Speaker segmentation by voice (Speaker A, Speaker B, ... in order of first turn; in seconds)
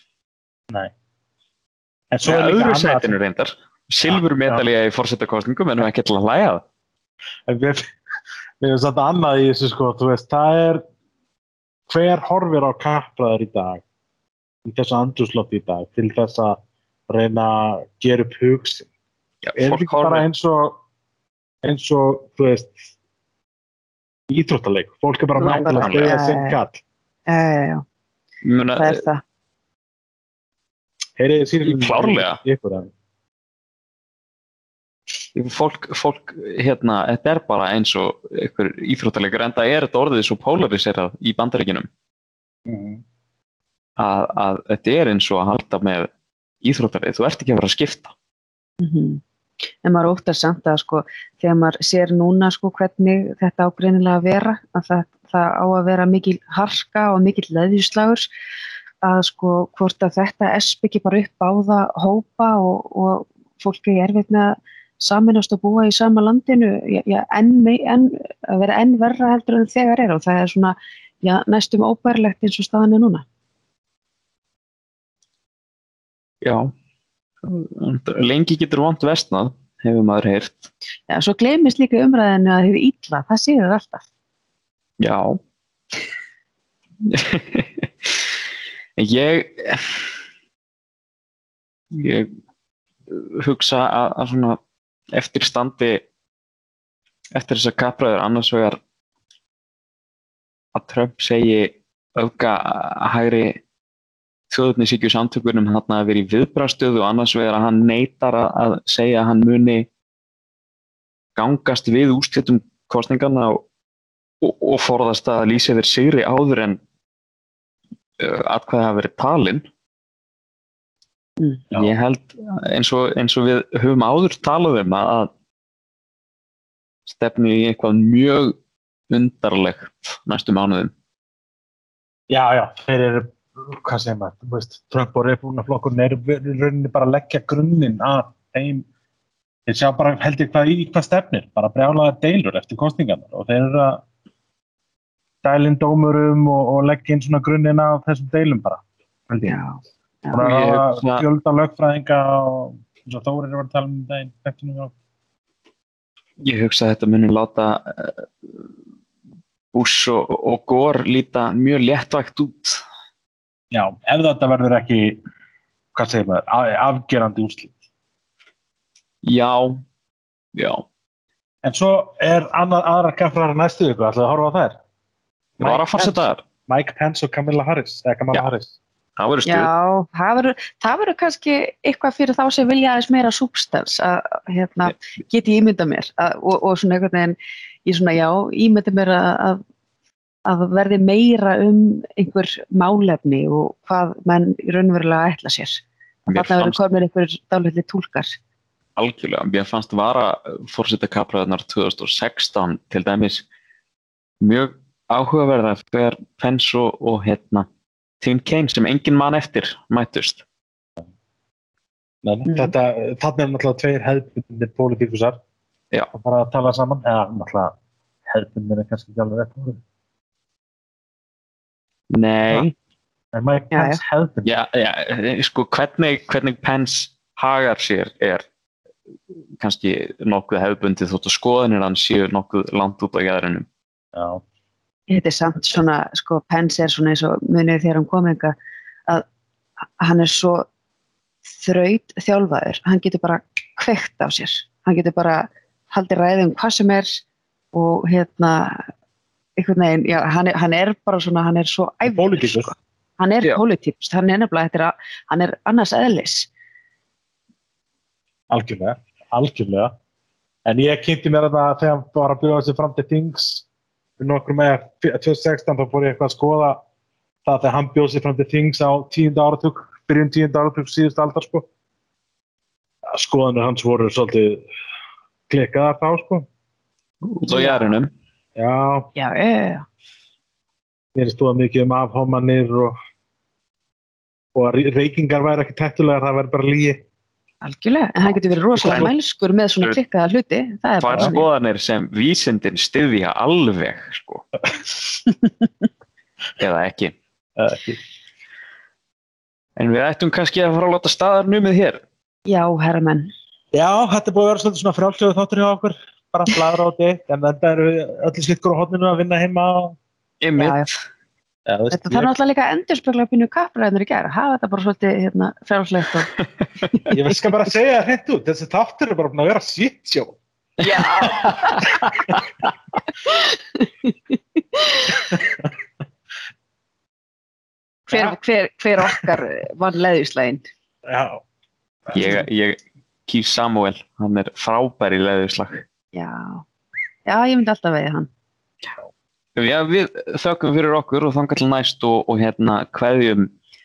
Speaker A: 2.1-3.2, 4.1-4.7, 7.5-7.9, 8.6-10.8, 11.9-13.8, 14.7-18.9, 19.6-20.8, 21.6-22.9, 24.3-26.8, 31.2-32.9, 42.7-43.0, 132.3-138.9, 139.7-144.0, 145.4-149.6, 150.3-154.9, 163.7-165.2, 165.9-167.8, 171.6-174.8, 175.6-178.8, 212.2-215.4, 216.1-217.7, 218.3-219.8, 223.3-224.5, 234.1-234.4, 252.1-252.8, 258.5-259.9, 260.7-263.6, 264.2-266.8, 267.4-271.7, 273.1-274.7, 275.5-276.5, 278.6-279.1, 281.1-283.0, 284.6-287.1, 297.6-298.0, 303.7-310.0, 311.7-312.3, 317.1-320.4, 321.2-322.3, 325.3-325.7, 328.1-328.4, 331.1-331.4, 332.1-332.4
Speaker B: 2.2-6.6, 19.4-20.2, 25.4-26.2, 28.4-29.0, 31.6-32.4, 35.4-41.9, 44.0-46.1, 46.6-48.1, 76.4-76.7, 77.4-80.7, 85.0-85.4, 87.0-88.2, 89.0-90.1, 91.9-92.3, 93.1-94.6, 95.1-96.0, 97.3-98.8, 100.7-103.6, 104.5-109.9, 111.4-113.6, 114.4-116.8, 118.2-119.7, 121.7-125.3, 127.1-128.6, 129.1-130.9, 150.4-151.3, 156.4-158.3, 159.7-162.8, 169.2-169.8, 170.5-170.8, 175.6-176.4, 179.2-179.7, 196.3-196.8, 199.0-203.4, 204.4-207.7, 208.2-210.4, 222.1-222.7, 224.4-228.4, 229.6-233.7, 277.2-278.1, 288.8-289.1, 291.0-294.4, 296.6-297.1, 299.8-302.0, 310.4-311.0, 332.1-335.8, 339.6-343.5
Speaker C: 25.4-26.6, 27.3-27.8, 28.8-29.2, 48.8-49.2, 49.8-58.3, 59.0-73.2, 81.1-84.1, 149.5-150.4, 179.5-189.6, 190.5-198.4, 212.5-212.7, 223.7-224.0, 235.1-238.6, 240.0-240.7, 241.5-247.2, 247.7-248.8, 249.6-256.5, 277.5-278.0, 279.1-279.9, 287.6-291.5, 302.5-303.3, 310.6-310.9, 311.9-316.3, 320.8-321.9, 323.3-325.4, 328.1-330.6, 336.1-336.6, 337.3-338.3